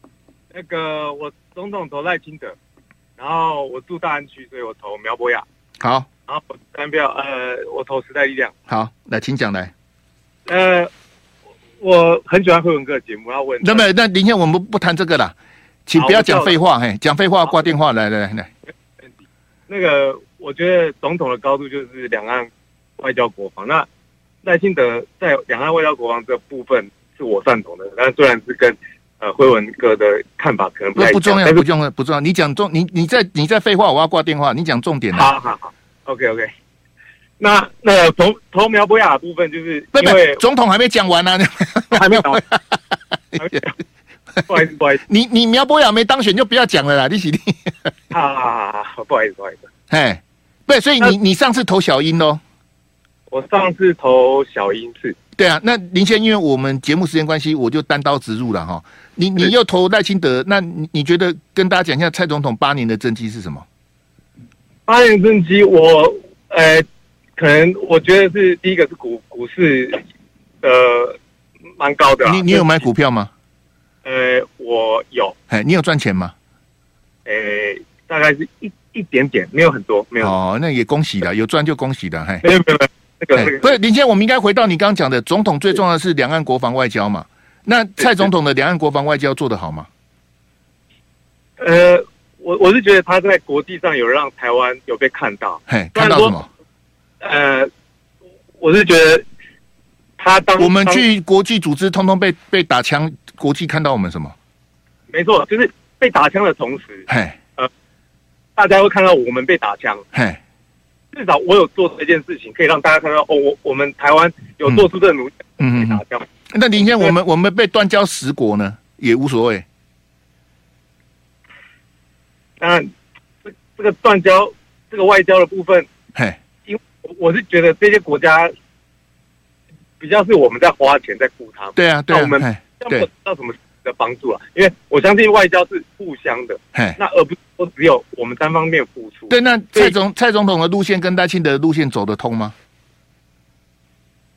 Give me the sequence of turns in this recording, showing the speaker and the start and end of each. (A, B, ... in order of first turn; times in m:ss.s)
0:00.5-0:02.6 A
0:03.2-0:05.4 A
0:05.8-0:06.1 B
0:06.3-0:08.5 A
0:08.7-0:09.7 B
0:10.4-0:10.9 A
0:11.8-0:13.8 A
0:13.6-0:15.4 B
0:15.9-0:18.5 B
0:15.9-0:16.6 A
0:19.7-0:23.9 A
0:24.4-0:31.6 A
0:31.0-0:35.3 B
0:35.1-0:36.5 A
0:37.4-0:40.4 A
0:39.9-0:42.8 B
0:41.9-0:42.4 A
0:43.4-0:43.7 A
0:44.5-0:45.0 A
0:45.1-0:47.9 B
0:48.1-0:49.7 A
0:49.9-0:52.4 B
0:53.3-0:55.2 A
0:55.4-1:03.6 B
1:04.9-1:06.8 A
1:07.4-1:10.0 A
1:10.6-1:11.2 A
1:11.8-1:12.6 A
1:12.2-1:13.3 B
1:14.0-1:15.4 A
1:15.5-1:16.3 B
1:17.2-1:20.3 A
1:20.2-1:22.5 B
1:22.4-1:23.7 A
1:23.3-1:29.9 B
1:31.6-1:36.3 A
1:35.7-1:36.5 B
1:37.2-1:37.7 A
1:38.6-1:39.2 A
1:40.2-1:41.0 A
1:40.6-1:44.3 B
1:45.1-1:47.0 A
1:47.1-1:47.4 B
1:48.6-1:50.0 A
1:50.1-1:50.4 B
1:51.1-1:56.2 A
1:55.6-1:59.6 B
1:56.8-1:57.1 A
2:02.6-2:02.9 A
2:03.4-2:05.9 A
2:06.7-2:08.5 A
2:10.0-2:19.9 A
2:11.8-2:13.1 B
2:19.3-2:22.6 B